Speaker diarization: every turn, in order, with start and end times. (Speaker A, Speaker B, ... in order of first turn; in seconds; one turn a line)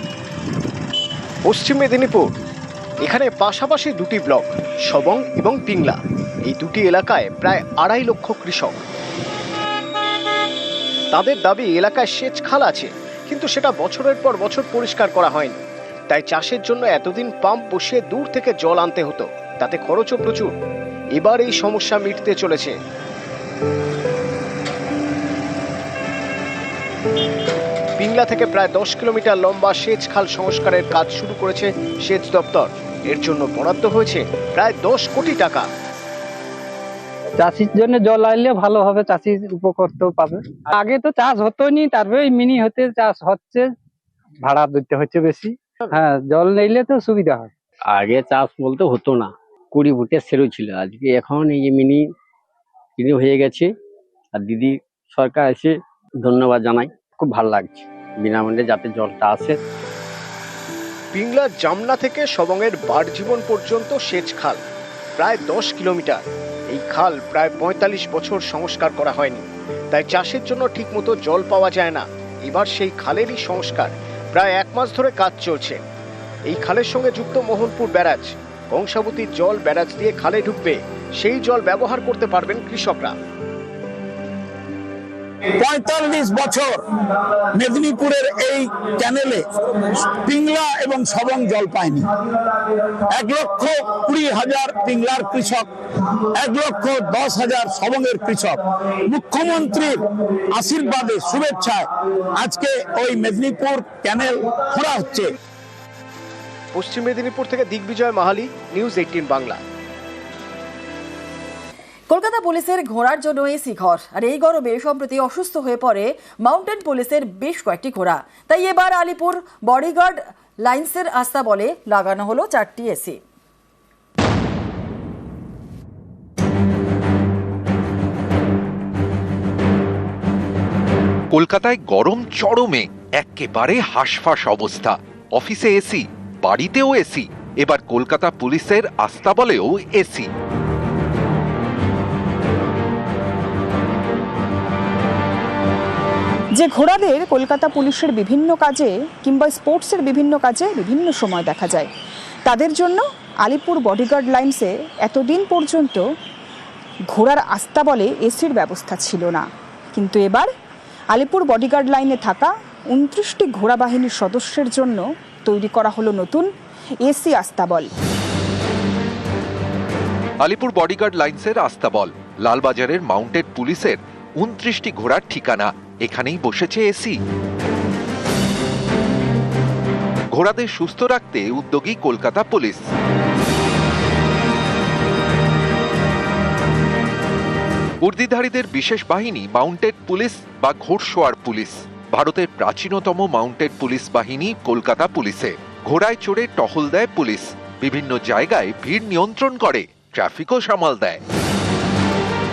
Speaker A: 1.5-2.3
Speaker A: 3.0-6.0
Speaker A: 6.5-8.8
Speaker A: 11.1-15.6
Speaker A: 16.1-20.5
Speaker A: 21.2-22.7
Speaker A: 28.0-35.7
Speaker B: 37.4-43.7
Speaker B: 44.4-47.5
Speaker C: 47.9-52.1
Speaker C: 53.0-53.7
Speaker C: 54.3-59.6
Speaker A: 61.1-64.6
Speaker A: 65.2-75.8
Speaker A: 76.5-83.2
Speaker D: 85.6-86.7
Speaker D: 87.6-89.5
Speaker D: 90.2-92.0
Speaker D: 93.1-95.6
Speaker D: 96.3-100.0
Speaker D: 100.5-105.3
Speaker A: 106.7-109.6
Speaker E: 112.1-123.2
Speaker F: 131.3-140.3
Speaker G: 146.6-151.9
Speaker G: 152.5-156.0
Speaker G: 157.1-159.4
Speaker G: 159.9-160.5
Speaker G: 161.1-166.5
Speaker G: 167.1-167.9
Speaker F: 170.4-177.2
Speaker F: 180.3-182.8
Speaker F: 188.0-201.2